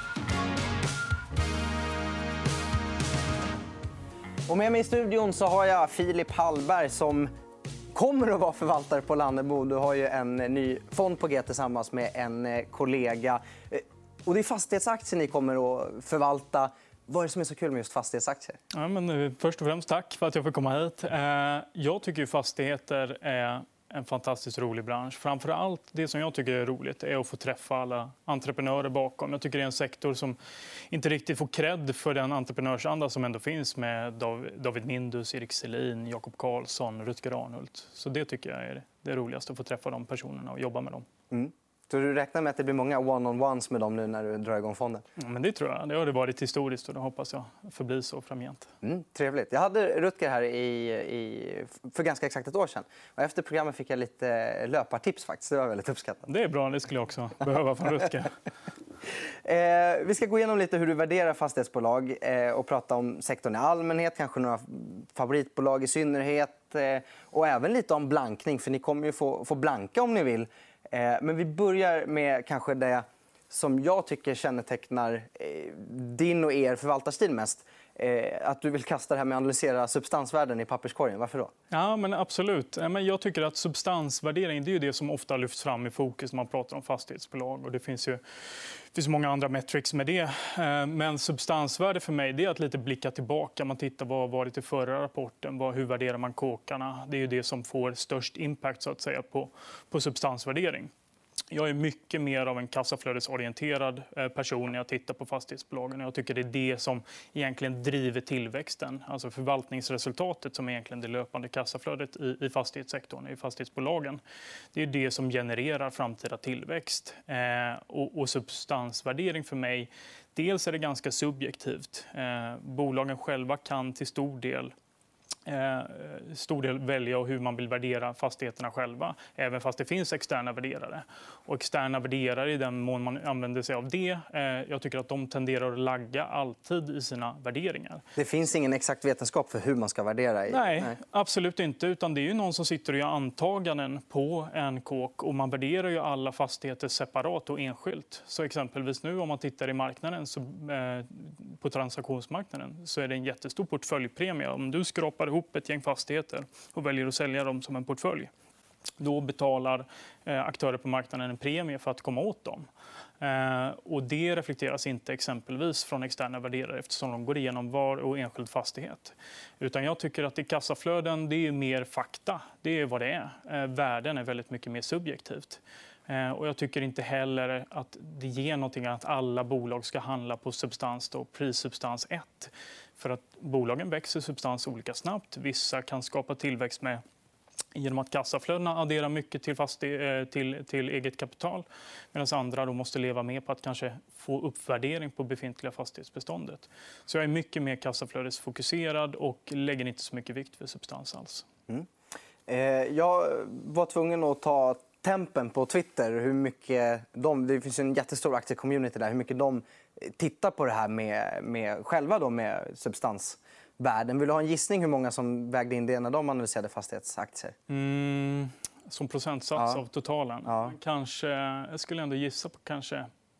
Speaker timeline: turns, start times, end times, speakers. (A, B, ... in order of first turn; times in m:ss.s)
0:04.5-0:07.3 A
0:07.9-0:18.6 A
0:18.7-0:41.1 B
0:41.3-0:45.0 A
0:45.2-0:48.7 B
0:48.8-0:56.3 A
0:56.3-0:58.3 B
0:59.4-1:21.5 A
1:21.7-1:40.9 B
1:41.5-1:54.2 B
1:54.7-2:04.7 B
2:05.4-2:18.0 B
2:18.2-2:21.0 A
2:20.5-2:38.3 B
2:39.0-2:42.7 B
2:43.2-3:07.0 B
3:07.7-3:21.5 B
3:22.5-3:37.6 A
3:37.7-3:43.1 B
3:39.6-3:39.8 A
3:40.5-3:40.7 A